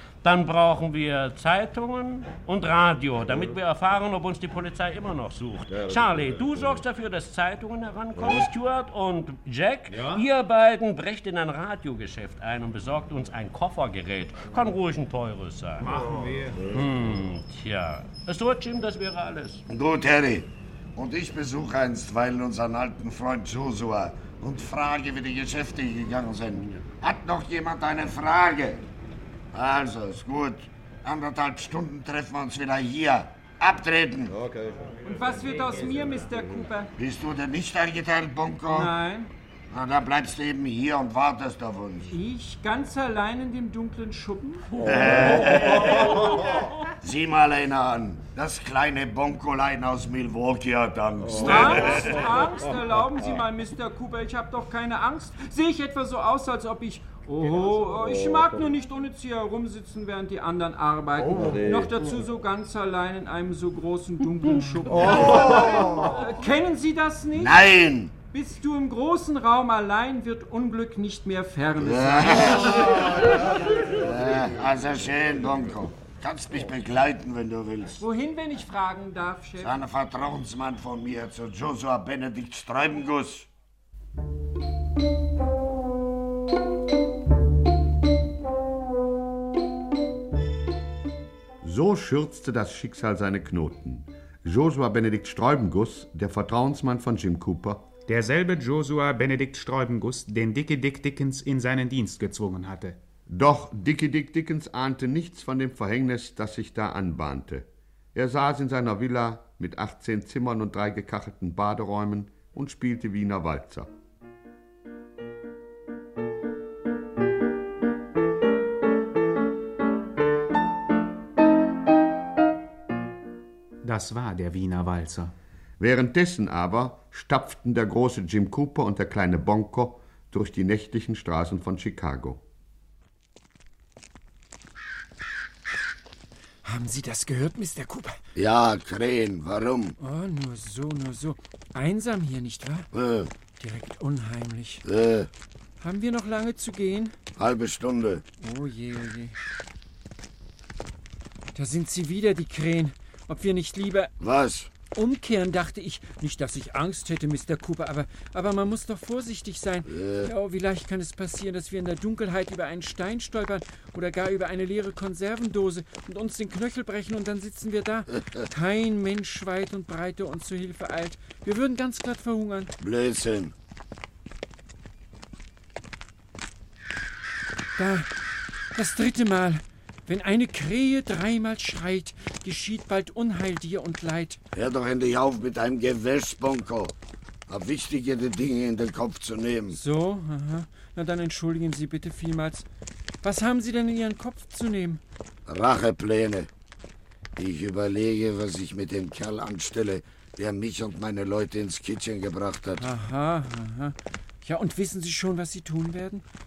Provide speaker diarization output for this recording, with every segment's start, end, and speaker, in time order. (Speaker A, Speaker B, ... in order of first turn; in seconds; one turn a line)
Speaker A: 0.2-16.1
Speaker A: 16.7-19.6
Speaker B: 19.7-28.8
Speaker B: 29.5-34.4
Speaker C: 35.0-36.9
Speaker B: 37.0-38.9
Speaker C: 38.7-39.3
Speaker B: 39.7-42.1
Speaker C: 42.1-44.9
Speaker B: 44.8-46.5
Speaker B: 47.0-52.2
Speaker C: 51.4-67.8
Speaker B: 65.0-66.1
Speaker B: 67.3-68.2
Speaker C: 68.3-73.4
Speaker B: 71.8-73.3
Speaker B: 73.9-78.0
Speaker C: 78.0-79.8
Speaker B: 79.6-83.5
Speaker D: 91.6-97.8
Speaker E: 98.1-103.0
Speaker D: 103.3-113.9
Speaker E: 123.8-125.3
Speaker D: 125.8-132.4
Speaker C: 136.6-138.2
Speaker B: 138.4-139.9
Speaker C: 140.0-142.9
Speaker B: 142.9-143.3
Speaker C: 143.6-144.8
Speaker B: 144.8-145.3
Speaker C: 145.8-147.2
Speaker B: 147.4-148.2
Speaker C: 148.4-149.4
Speaker C: 151.5-154.1
Speaker B: 154.2-154.7
Speaker C: 154.9-172.7
Speaker B: 159.9-160.3
Speaker B: 168.1-168.4
Speaker B: 172.8-173.5
Speaker C: 177.8-178.1
Speaker C: 178.7-184.4
Speaker B: 184.5-186.9
Speaker B: 187.5-189.8
Speaker C: 189.7-192.7
Speaker C: 193.2-195.0
Speaker B: 195.5-196.5
Speaker B: 197.4-202.9
Speaker C: 202.8-206.2